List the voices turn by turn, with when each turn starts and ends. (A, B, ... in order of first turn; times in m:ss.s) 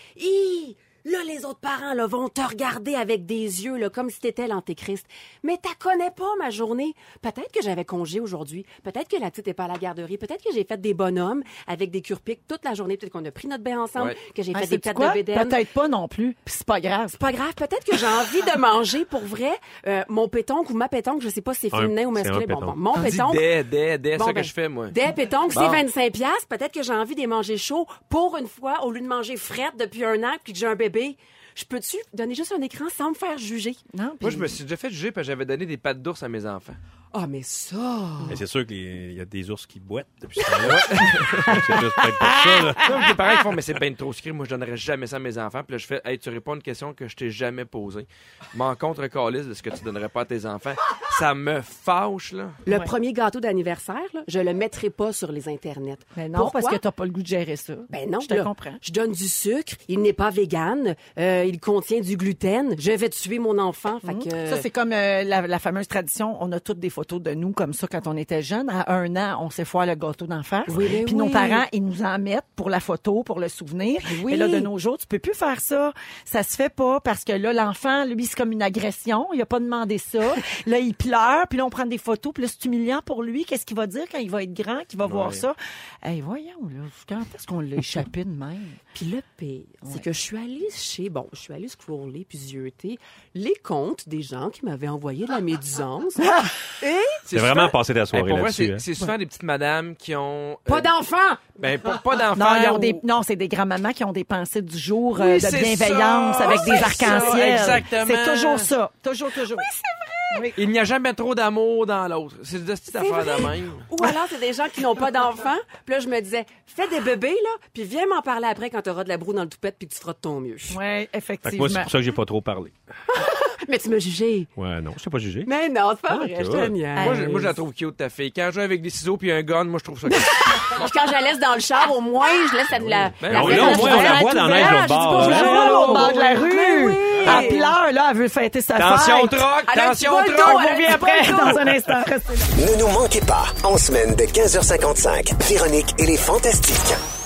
0:00.2-0:15.6 A
0:14.5-0:17.2 B
0:17.1-0:23.5 A
0:21.7-0:22.8 C
0:23.0-0:24.9 D
0:24.2-0:33.8 A
0:25.5-0:25.8 D
0:33.9-0:34.5 B
0:34.2-0:36.8 D
0:37.1-0:38.4 A
0:38.3-0:43.0 C
0:40.6-0:41.6 D
0:41.5-0:43.1 B
0:42.8-0:52.6 D
0:52.6-0:56.8 A
0:52.7-0:52.9 B
0:56.2-0:58.8 B
0:57.9-1:04.7 A
1:04.1-1:28.8 B
1:10.7-1:11.6 A
1:14.0-1:14.7 A
1:25.0-1:25.4 C
1:28.9-1:37.2 A
1:37.2-1:40.9 D
1:37.3-1:38.8 C
1:40.7-1:41.6 A
1:41.6-1:43.0 D
1:42.4-1:49.7 B
1:45.2-1:48.7 D
1:46.4-1:47.8 A
1:49.6-1:50.5 A
1:50.3-1:50.6 B
1:50.6-1:53.9 D
1:52.9-2:00.8 A
2:00.7-2:01.9 B
2:01.4-2:02.8 C
2:03.1-2:04.5 A
2:04.6-2:05.5 C
2:05.5-2:07.5 A
2:06.1-2:06.8 C
2:07.0-2:07.6 B
2:07.0-2:10.7 D
2:10.4-2:17.7 A
2:12.9-2:15.8 C
2:13.2-2:14.3 D
2:13.4-2:19.5 B
2:15.0-2:16.2 D
2:18.8-2:20.8 D
2:19.7-2:21.7 A
2:20.4-2:22.5 B
2:22.6-2:27.0 E